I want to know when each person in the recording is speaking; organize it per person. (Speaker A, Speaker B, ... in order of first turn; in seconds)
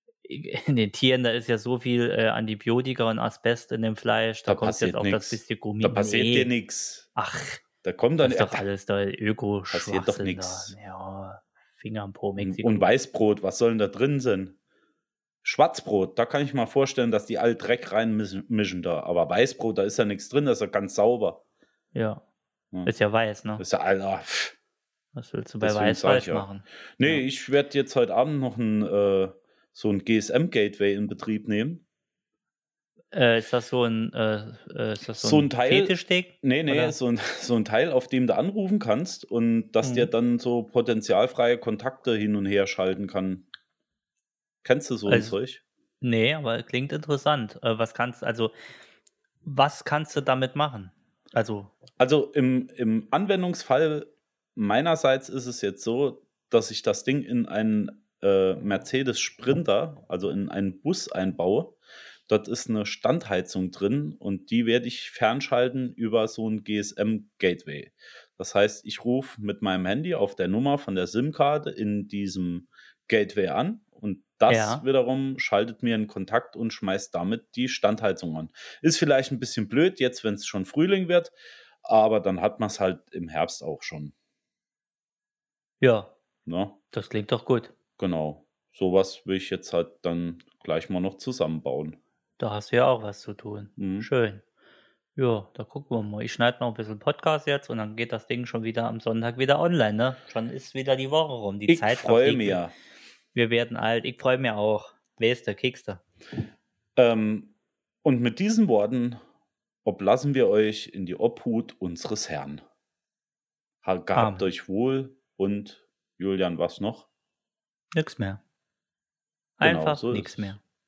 Speaker A: 0.2-6.5, 7.1-7.6, 8.2-12.9, 21.9-22.2, 22.8-23.6, 25.1-27.2, 33.1-36.9, 39.8-40.1, 45.1-45.3, 46.0-48.5, 49.4-51.7, 74.5-74.8, 85.8-86.1, 86.9-87.7, 92.4-94.4, 95.2-102.6, 103.3-106.0, 114.1-114.5, 117.9-118.4, 119.6-120.6
Speaker B: 4.5-7.1, 7.8-8.7, 9.7-10.7, 12.4-14.6, 15.4-21.4, 23.6-24.5, 25.6-31.8, 35.2-43.5, 44.6-45.6, 52.0-61.8, 62.3-84.1, 86.5-86.8, 88.0-92.0, 93.8-94.1, 101.7-102.7, 107.0-107.5, 108.0-109.2, 109.8-112.6, 113.8-117.1, 119.6-120.5